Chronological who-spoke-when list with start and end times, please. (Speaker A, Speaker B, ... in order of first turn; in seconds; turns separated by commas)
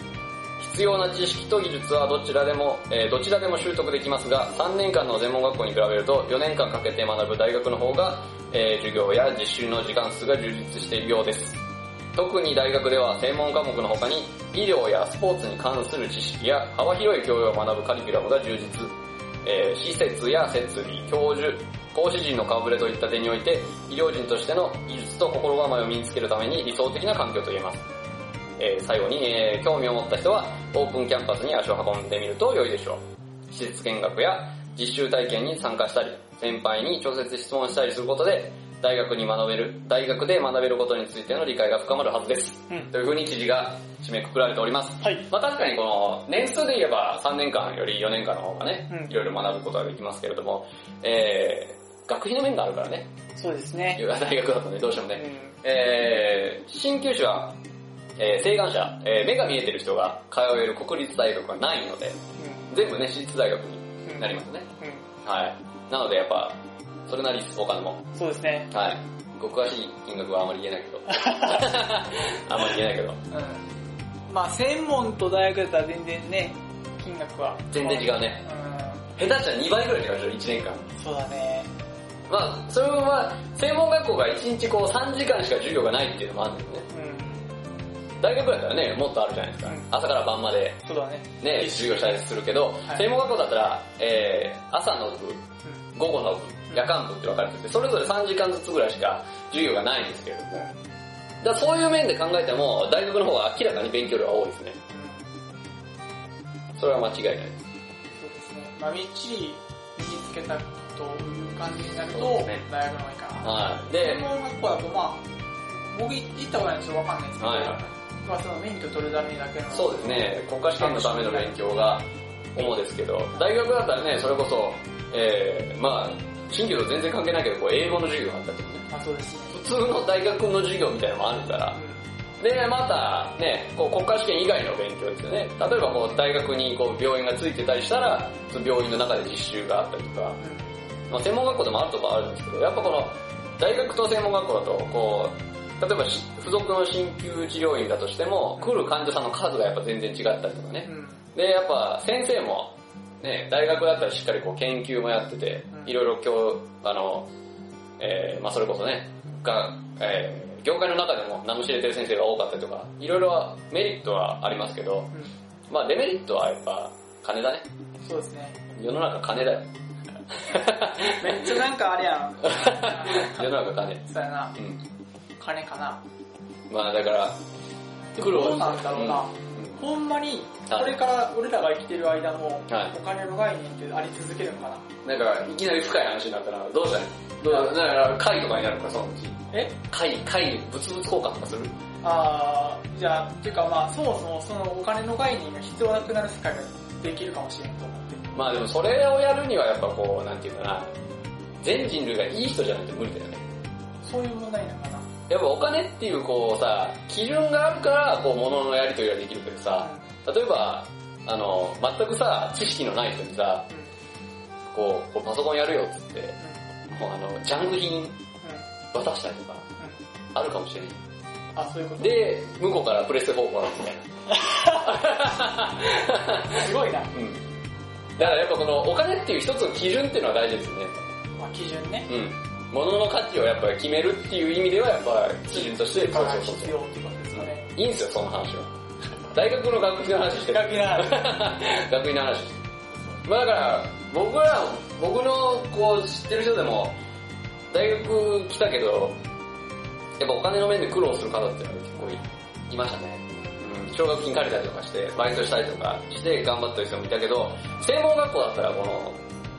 Speaker A: 0.6-11.6, Speaker A: 12.1-18.9, Speaker A: 19.4-27.9, Speaker A: 28.6-53.1, Speaker B: 45.0-45.3, Speaker B: 48.9-49.1, Speaker B: 53.4-54.0, Speaker A: 54.0-57.6, Speaker B: 55.1-55.6, Speaker A: 58.2-64.7, Speaker B: 62.4-62.7, Speaker B: 64.1-65.1, Speaker A: 65.2-68.1, Speaker B: 68.1-68.7, Speaker A: 68.7-73.2, Speaker B: 71.1-71.7, Speaker B: 73.3-73.7, Speaker B: 74.3-79.1, Speaker A: 77.7-78.4, Speaker A: 79.2-80.9, Speaker B: 80.9-81.7, Speaker A: 82.3-86.9, Speaker B: 86.9-87.5, Speaker A: 88.2-90.8, Speaker B: 89.6-89.9, Speaker B: 90.8-92.2, Speaker A: 91.4-100.7, Speaker A: 101.4-104.8, Speaker B: 104.9-105.3, Speaker A: 106.8-107.6, Speaker B: 108.2-121.5, Speaker A: 112.1-112.6, Speaker A: 113.4-114.3, Speaker A: 117.4-117.9, Speaker A: 119.7-128.9, Speaker B: 128.9-129.6, Speaker A: 129.5-131.8, Speaker B: 131.8-132.0, Speaker A: 132.4-140.4, Speaker B: 140.4-140.7, Speaker A: 141.1-157.3, Speaker B: 150.8-151.3, Speaker A: 158.0-165.1, Speaker A: 165.7-167.7, Speaker B: 168.0-168.6, Speaker A: 168.8-169.7, Speaker A: 170.3-171.6, Speaker B: 171.0-173.5, Speaker A: 172.4-174.0, Speaker B: 174.0-174.6, Speaker B: 175.4-176.0, Speaker A: 176.7-177.4, Speaker B: 178.2-184.9, Speaker A: 178.2-179.8, Speaker A: 180.7-181.0, Speaker A: 182.7-182.9, Speaker A: 185.0-191.8, Speaker B: 187.5-187.7, Speaker B: 192.0-198.3, Speaker A: 198.3-200.9, Speaker A: 201.6-203.4, Speaker B: 204.0-205.1, Speaker A: 205.3-213.7, Speaker B: 209.8-210.1, Speaker A: 214.7-218.2, Speaker A: 218.9-219.7, Speaker A: 220.3-221.0, Speaker B: 221.6-222.2, Speaker A: 222.0-224.1, Speaker B: 224.3-225.0, Speaker A: 224.6-227.4, Speaker B: 226.5-227.1, Speaker A: 228.2-231.1, Speaker B: 231.4-232.1, Speaker A: 232.1-236.7, Speaker B: 235.5-237.7, Speaker A: 237.3-238.7, Speaker A: 239.3-242.7, Speaker B: 240.5-241.3, Speaker A: 243.2-247.0, Speaker A: 247.7-249.2, Speaker A: 250.2-259.2, Speaker B: 252.0-252.4